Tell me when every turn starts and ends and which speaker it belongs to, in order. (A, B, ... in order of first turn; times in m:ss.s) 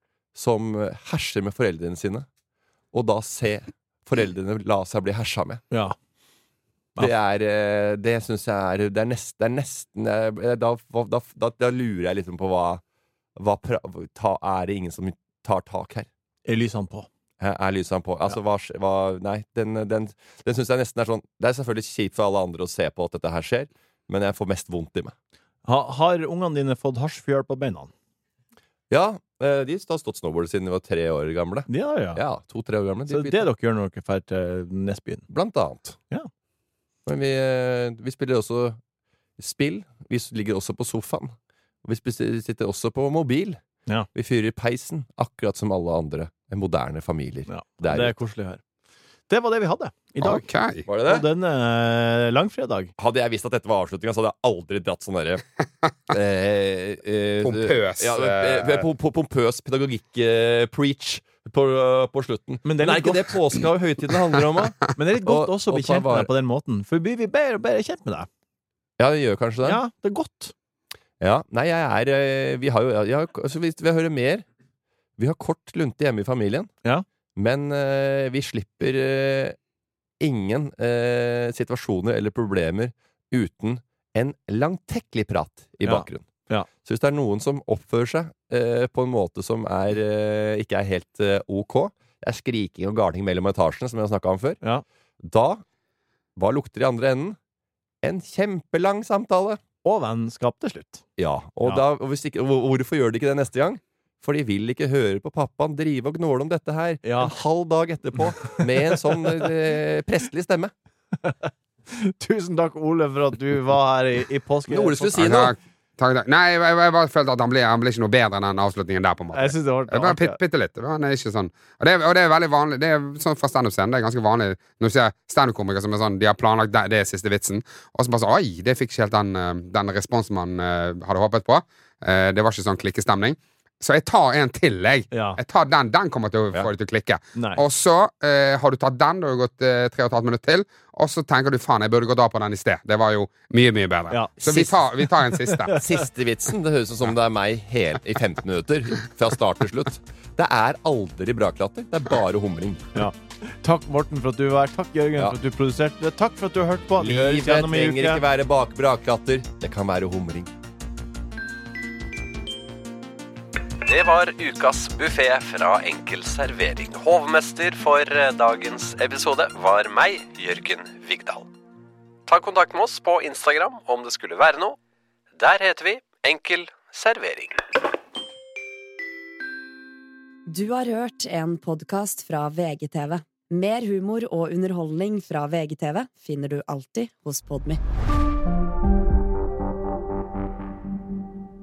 0:00.4-0:02.3 A
0:02.9-0:05.6 A
0:07.0-0:12.8 A
0:13.4-0:16.1 A
0:16.5-0:17.1 B
0:17.4-0:25.1 A
0:25.6-0:27.9 B
0:28.9-0:33.5 A
0:31.7-0:32.2 B
0:33.1-0:35.3 B
0:35.3-0:36.0 A
0:37.1-0:38.8 A
0:39.4-0:43.6 A
0:44.1-0:48.2 A
0:47.5-0:48.6 B
0:49.3-0:50.4 B
0:50.2-0:50.9 C
0:50.9-0:51.2 A
0:51.0-0:52.9 B
0:53.0-0:55.4 A
0:56.1-1:06.3 A
0:57.4-0:58.9 C
1:02.6-1:03.4 B
1:05.0-1:08.3 B
1:09.0-1:09.8 A
1:09.6-1:10.5 B
1:11.2-1:14.4 A
1:15.2-1:16.7 A
1:17.4-1:19.6 A
1:20.2-1:26.3 A
1:25.8-1:26.7 B
1:26.8-1:34.6 A
1:35.2-1:35.6 A
1:36.4-1:37.4 A
1:38.0-1:39.6 A
1:39.8-1:41.0 B
1:41.2-1:50.7 A
1:47.0-1:47.3 B
1:48.4-1:49.5 B
1:51.2-1:55.2 B
1:54.7-1:55.6 A
1:55.2-2:25.8 C
1:59.3-2:00.4 B
2:15.1-2:15.4 B
2:17.4-2:17.6 B
2:24.1-2:26.0 B
2:25.8-2:32.9 A
2:33.0-2:38.2 B
2:37.0-2:40.5 A
2:43.8-2:51.5 D
2:52.3-2:54.8 D
2:55.4-2:57.6 D
3:00.5-3:07.8 E